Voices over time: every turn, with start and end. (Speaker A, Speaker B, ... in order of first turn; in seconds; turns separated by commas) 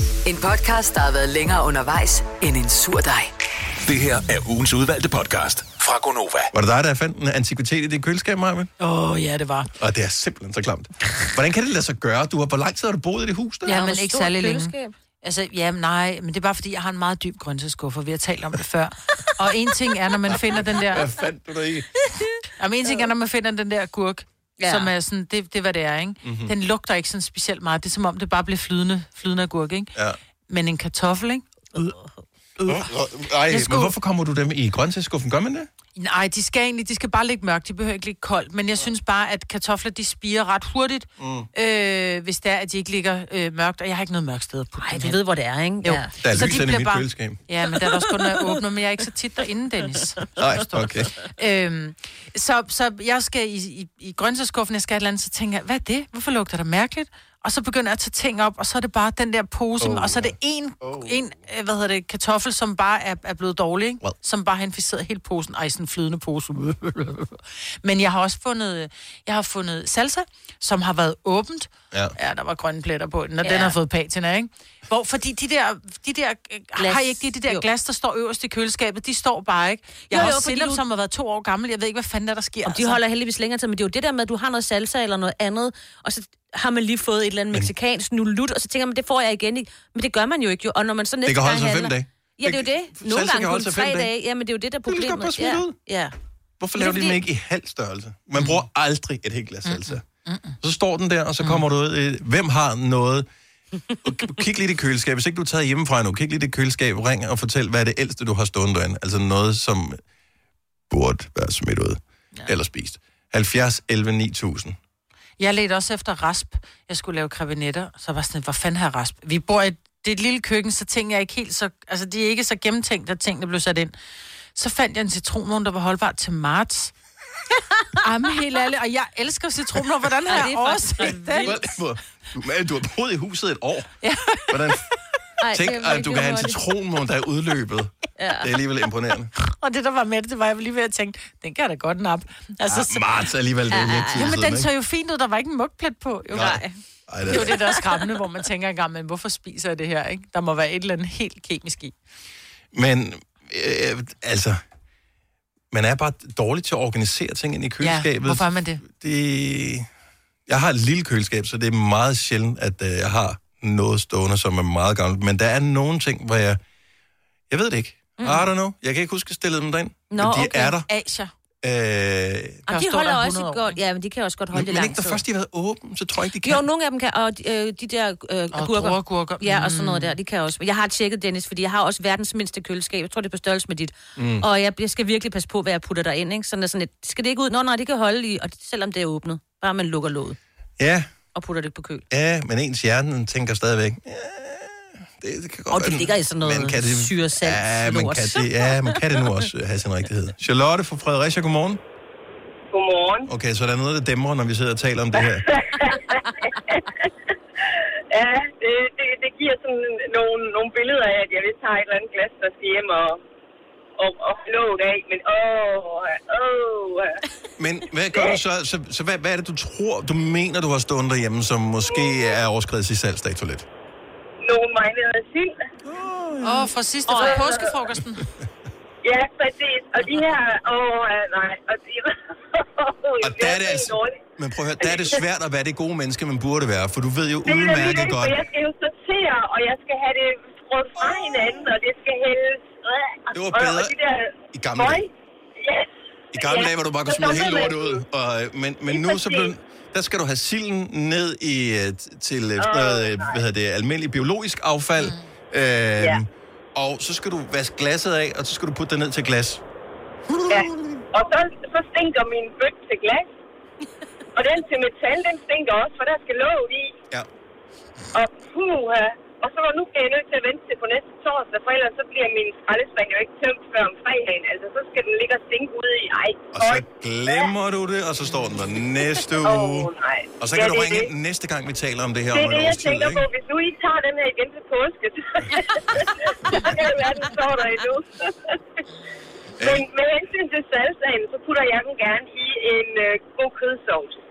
Speaker A: 0.2-3.3, Speaker B: 3.9-6.5, Speaker C: 6.5-8.7, Speaker D: 8.8-9.7, Speaker C: 9.7-13.8, Speaker D: 13.7-21.1, Speaker E: 13.7-14.9, Speaker C: 20.5-21.9, Speaker E: 22.3-23.0, Speaker D: 22.6-29.9, Speaker E: 24.6-24.9, Speaker C: 26.2-26.5, Speaker D: 30.5-31.4, Speaker D: 32.6-32.9, Speaker C: 32.6-35.7, Speaker D: 33.5-33.9, Speaker D: 36.0-45.2, Speaker C: 41.2-41.5, Speaker E: 44.8-46.1, Speaker D: 45.8-50.3, Speaker C: 46.2-47.4, Speaker C: 50.4-51.1, Speaker E: 51.0-51.2, Speaker D: 51.3-83.0, Speaker C: 59.8-61.2, Speaker E: 73.4-73.7, Speaker E: 76.8-77.6, Speaker E: 80.1-80.8, Speaker E: 82.6-96.1, Speaker C: 91.2-94.1, Speaker C: 94.9-95.8, Speaker C: 96.6-100.0, Speaker E: 96.8-97.2, Speaker D: 99.7-100.6, Speaker C: 100.6-103.3, Speaker C: 104.0-110.0, Speaker C: 110.9-114.8, Speaker D: 115.4-123.9, Speaker D: 124.5-126.9, Speaker D: 128.0-131.5, Speaker E: 130.3-131.6, Speaker C: 131.4-133.9, Speaker D: 134.0-134.6, Speaker C: 134.5-134.9, Speaker E: 135.4-136.6, Speaker C: 135.4-139.3, Speaker E: 138.2-138.5, Speaker D: 139.4-143.0, Speaker C: 142.7-144.7, Speaker E: 143.7-144.3, Speaker D: 144.1-146.6, Speaker C: 146.3-147.6, Speaker E: 146.3-146.8, Speaker D: 147.3-151.9, Speaker E: 147.3-147.7, Speaker C: 152.7-154.6, Speaker C: 155.7-159.9, Speaker D: 157.8-158.8, Speaker C: 160.5-166.6, Speaker C: 167.5-170.9, Speaker E: 168.2-168.4, Speaker E: 170.1-170.6, Speaker D: 170.5-171.3, Speaker C: 171.6-172.6, Speaker D: 172.7-173.8, Speaker E: 172.7-175.2, Speaker C: 174.5-176.6, Speaker E: 176.4-190.4, Speaker D: 178.5-180.1, Speaker C: 184.2-184.4, Speaker C: 190.8-191.1, Speaker E: 191.3-192.0, Speaker C: 192.1-201.8, Speaker E: 195.7-199.2, Speaker F: 202.7-203.3, Speaker C: 203.3-205.5, Speaker F: 208.1-213.2, Speaker F: 214.0-217.0, Speaker C: 217.6-223.7, Speaker F: 224.4-225.5, Speaker C: 225.8-226.7, Speaker D: 226.4-228.2, Speaker E: 227.1-227.4, Speaker F: 227.1-227.7, Speaker F: 229.0-234.1, Speaker C: 233.2-238.4, Speaker F: 234.8-235.1, Speaker F: 237.5-245.0, Speaker C: 241.0-241.6, Speaker C: 243.3-244.0, Speaker C: 244.5-245.1, Speaker F: 245.6-245.9, Speaker C: 246.3-259.6, Speaker F: 246.4-247.9, Speaker F: 248.9-249.4, Speaker F: 252.6-253.3, Speaker C: 260.3-261.0, Speaker F: 260.5-263.3, Speaker F: 264.3-266.9, Speaker F: 268.1-276.8, Speaker C: 276.5-283.3, Speaker F: 279.4-281.0, Speaker F: 282.3-285.6, Speaker F: 286.4-288.1, Speaker C: 289.6-289.9, Speaker F: 289.6-294.1